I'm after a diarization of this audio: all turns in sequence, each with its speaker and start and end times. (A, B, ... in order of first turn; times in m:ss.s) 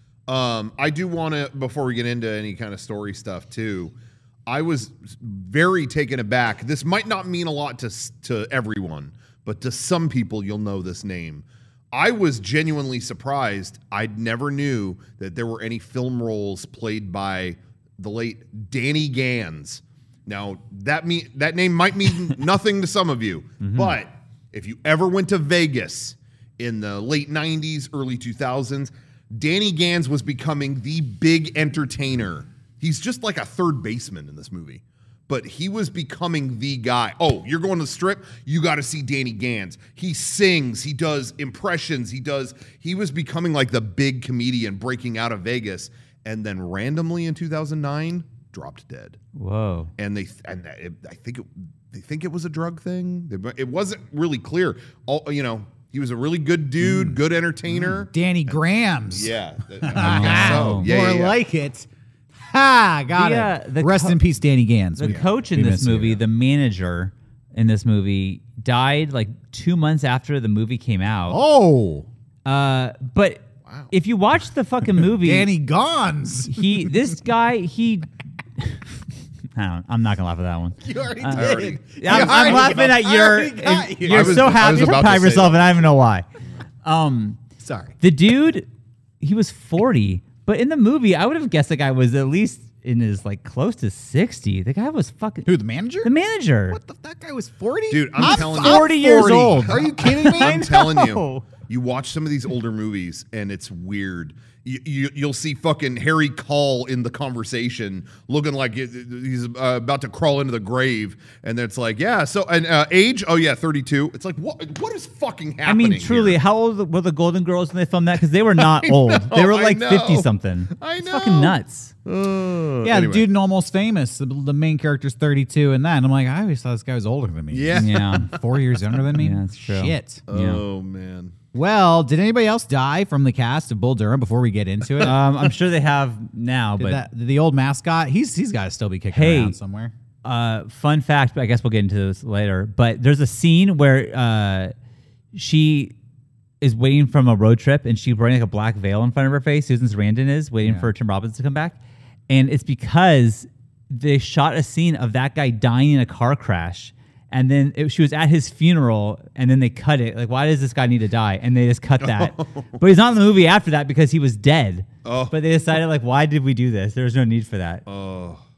0:00.3-0:03.9 A
0:04.5-0:49.2 A
0:23.6-0:23.9 B
0:49.3-0:49.9 B
0:50.0-0:58.5 A
0:56.8-0:57.2 C
0:57.7-1:06.2 C
0:59.1-1:01.4 A
0:59.9-1:00.9 B
1:03.1-1:04.2 B
1:05.0-1:11.4 B
1:11.3-1:12.1 C
1:12.4-1:15.5 B
1:15.2-1:16.9 C
1:16.5-1:18.8 B
1:19.5-1:26.2 B
1:20.8-1:24.6 C
1:21.3-1:23.0 A
1:24.0-1:26.0 A
1:26.8-1:27.4 B
1:27.6-1:27.9 C
1:28.0-1:28.7 B
1:29.2-1:35.5 B
1:35.4-1:36.1 C
1:36.0-1:36.8 B
1:36.7-1:40.6 C
1:37.9-1:56.4 A
1:38.2-1:41.5 B
1:55.6-2:01.9 B
1:58.6-2:03.3 A
2:02.8-2:10.2 C
2:07.5-2:08.9 A
2:07.7-2:08.3 B
2:09.1-2:10.6 B
2:10.3-2:11.3 A
2:11.5-2:15.1 C
2:15.0-2:17.0 B
2:16.8-2:19.9 C
2:19.1-2:19.6 B
2:20.2-2:24.7 B
2:25.3-2:25.9 B
2:26.6-2:31.8 B
2:30.6-2:30.9 C
2:32.3-2:47.8 B
2:42.0-2:42.7 A
2:45.0-2:45.3 A
2:47.9-2:48.4 A